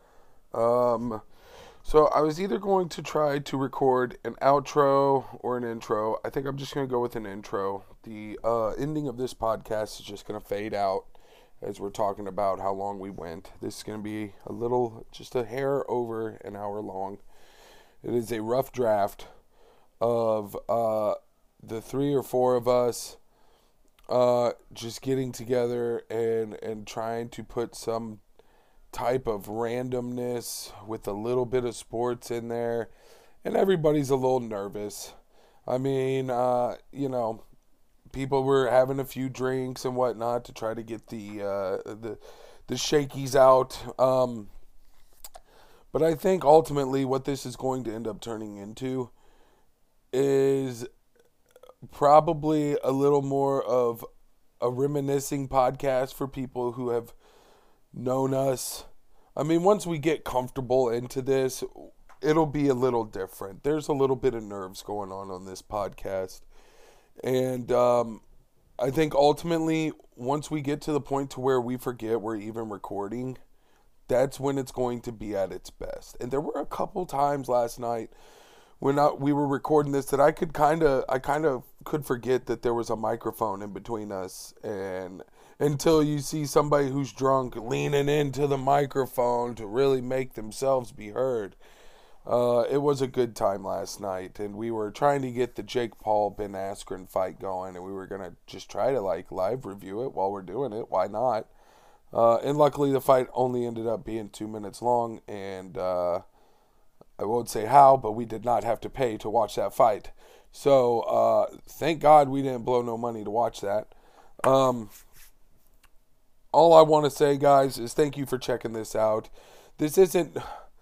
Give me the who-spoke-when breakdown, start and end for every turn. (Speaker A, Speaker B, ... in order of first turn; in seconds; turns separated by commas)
Speaker A: 0.5-1.2, Speaker A: 1.8-17.2, Speaker A: 18.0-19.3, Speaker A: 20.0-23.2, Speaker A: 24.1-28.2, Speaker A: 28.9-32.9, Speaker A: 33.4-35.1, Speaker A: 35.7-37.4, Speaker A: 38.1-44.5, Speaker A: 45.9-49.1, Speaker A: 50.1-50.9, Speaker A: 51.9-54.1, Speaker A: 54.6-57.1, Speaker A: 57.9-66.5, Speaker A: 67.2-68.2, Speaker A: 68.8-73.4, Speaker A: 74.1-78.1, Speaker A: 78.8-91.6, Speaker A: 92.3-101.5, Speaker A: 102.1-106.2, Speaker A: 107.2-113.9, Speaker A: 114.4-114.9, Speaker A: 116.5-120.5